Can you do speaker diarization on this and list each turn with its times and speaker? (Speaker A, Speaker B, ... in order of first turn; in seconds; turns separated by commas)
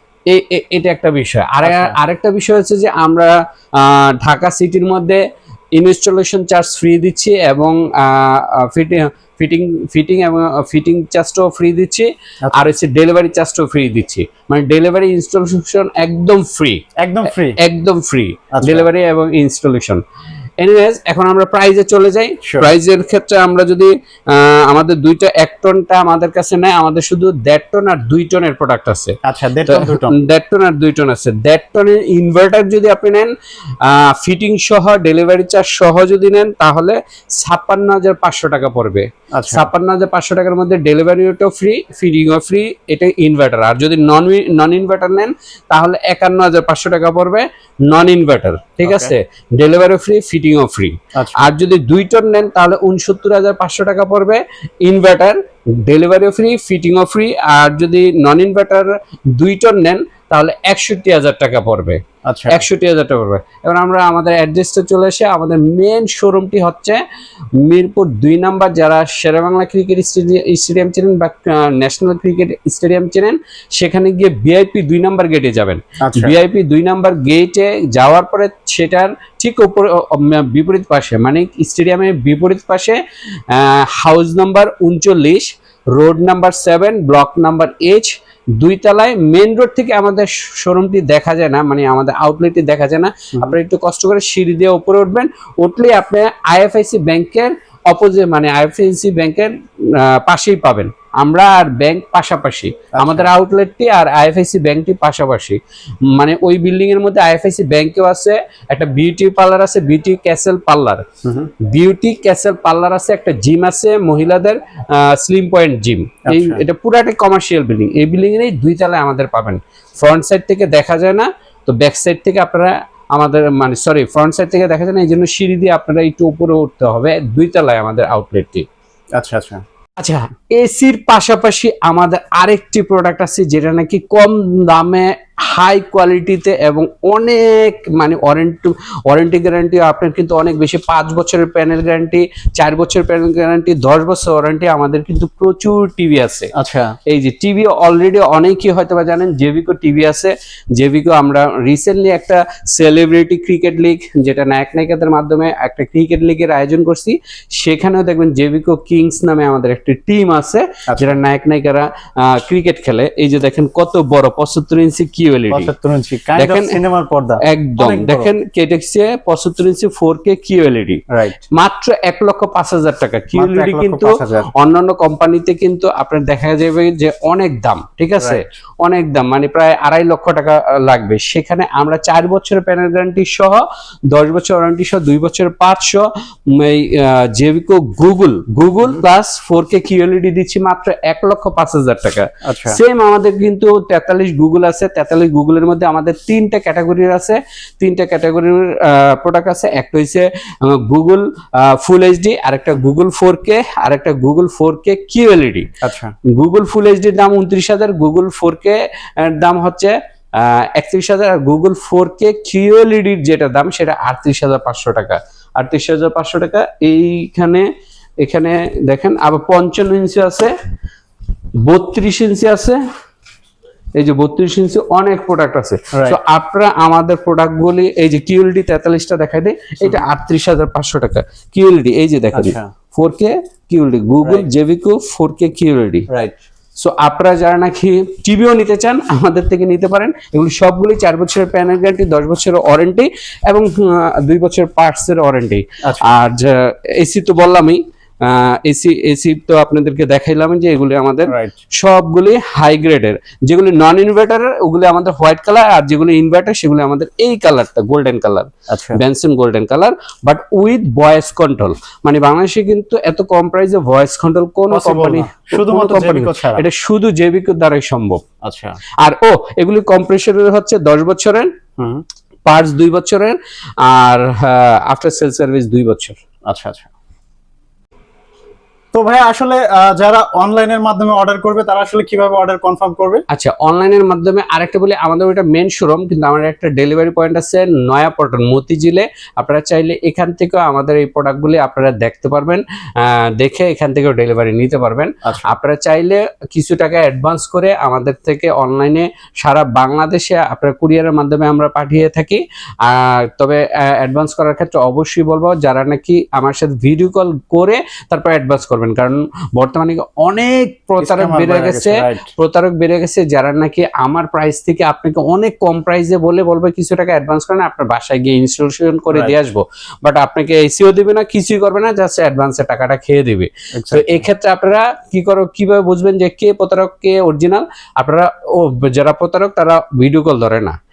Speaker A: 0.3-5.2, Speaker B: 1.6-1.9, Speaker A: 5.7-16.8, Speaker B: 17.0-17.6, Speaker A: 17.6-20.0, Speaker B: 18.5-18.9, Speaker A: 20.6-67.0, Speaker B: 22.4-22.7, Speaker B: 29.2-30.1, Speaker B: 39.3-39.7, Speaker B: 48.8-49.1, Speaker B: 51.1-51.5, Speaker B: 62.2-62.6, Speaker A: 67.5-111.0, Speaker B: 76.0-76.3, Speaker B: 102.9-103.3, Speaker B: 111.2-111.5, Speaker A: 111.6-128.7, Speaker B: 116.2-116.6, Speaker B: 129.2-129.6, Speaker A: 130.0-146.5, Speaker B: 146.5-147.0, Speaker A: 147.1-165.7, Speaker B: 160.9-161.2, Speaker B: 165.5-168.3, Speaker A: 166.3-166.8, Speaker A: 167.4-205.7, Speaker B: 171.1-171.4, Speaker B: 173.3-174.5, Speaker B: 178.2-178.4, Speaker B: 192.4-192.8, Speaker B: 205.8-206.1, Speaker A: 206.3-220.5, Speaker A: 221.6-222.8, Speaker A: 223.9-236.1, Speaker B: 225.9-226.2, Speaker B: 232.3-232.7, Speaker B: 234.2-234.5, Speaker B: 236.1-236.3, Speaker A: 236.8-268.2, Speaker B: 245.8-246.1, Speaker B: 251.3-251.5, Speaker B: 258.7-259.0, Speaker B: 264.7-266.6, Speaker B: 268.4-268.8, Speaker A: 269.0-271.5, Speaker B: 271.8-272.0, Speaker A: 272.4-276.2, Speaker B: 276.4-276.9, Speaker B: 278.9-283.2, Speaker A: 283.3-330.7, Speaker B: 295.2-295.5, Speaker B: 311.0-312.3, Speaker B: 323.8-324.2